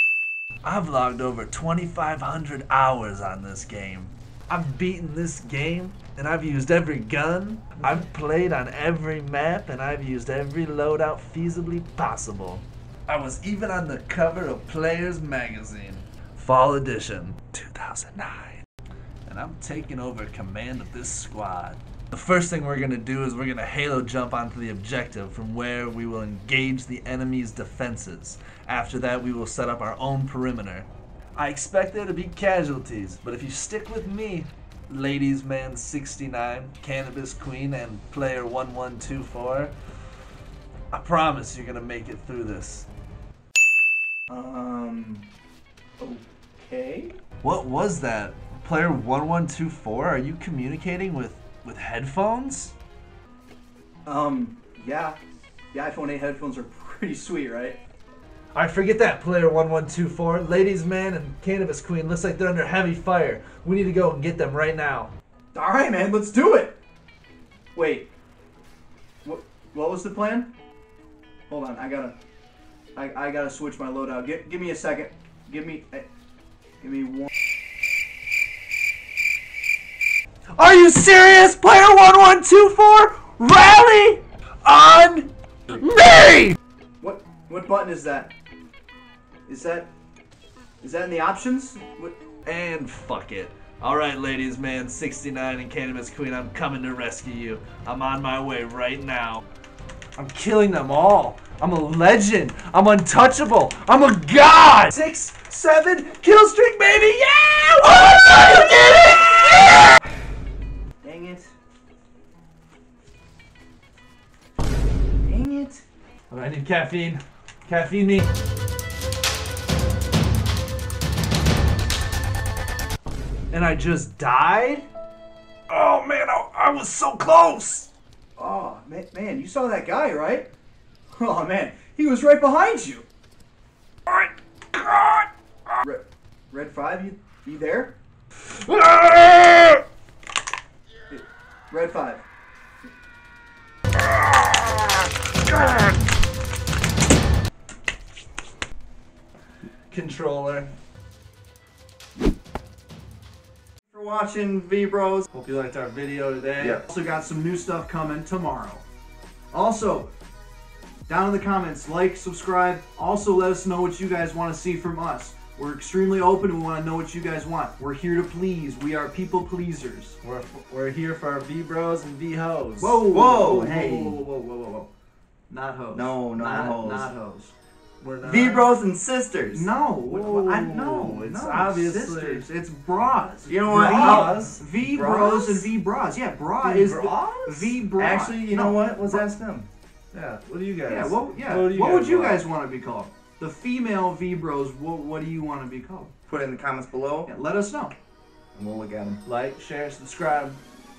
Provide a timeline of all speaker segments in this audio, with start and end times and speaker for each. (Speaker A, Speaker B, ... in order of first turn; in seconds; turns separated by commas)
Speaker A: 0.6-18.6, Speaker A: 19.2-39.7, Speaker A: 40.9-42.9, Speaker B: 44.3-45.3, Speaker B: 46.0-47.2, Speaker A: 47.4-52.8, Speaker B: 54.1-55.2, Speaker B: 55.7-57.8, Speaker A: 58.5-65.1, Speaker B: 65.5-66.8, Speaker B: 67.8-68.1, Speaker B: 69.2-70.5, Speaker B: 71.5-72.2, Speaker B: 72.9-76.1, Speaker B: 76.8-77.3, Speaker A: 80.5-86.6, Speaker B: 87.0-88.3, Speaker B: 89.5-89.9, Speaker B: 90.8-92.2, Speaker A: 92.4-99.4, Speaker A: 100.2-110.0, Speaker B: 111.0-111.5, Speaker B: 115.2-115.8, Speaker A: 116.3-118.3, Speaker A: 123.5-124.9, Speaker A: 125.7-127.9, Speaker B: 128.4-130.5, Speaker B: 131.1-133.1, Speaker A: 134.1-135.3, Speaker B: 135.8-138.0, Speaker A: 138.6-139.8, Speaker B: 141.1-142.2, Speaker A: 149.9-150.7, Speaker C: 153.9-155.3, Speaker A: 155.3-156.8, Speaker B: 156.8-158.8, Speaker B: 159.5-160.1, Speaker B: 161.1-170.2, Speaker A: 170.2-173.0, Speaker B: 172.8-174.9, Speaker C: 173.1-174.2, Speaker B: 175.5-177.5, Speaker C: 175.9-177.1, Speaker A: 178.0-178.7, Speaker C: 178.2-179.7, Speaker B: 179.5-189.3, Speaker A: 180.0-182.4, Speaker C: 183.5-185.7, Speaker A: 183.6-184.6, Speaker A: 186.6-187.8, Speaker C: 188.0-189.7, Speaker A: 190.1-192.4, Speaker B: 190.9-196.1, Speaker C: 196.3-197.3, Speaker B: 197.2-197.9, Speaker C: 198.5-199.2, Speaker A: 199.2-200.6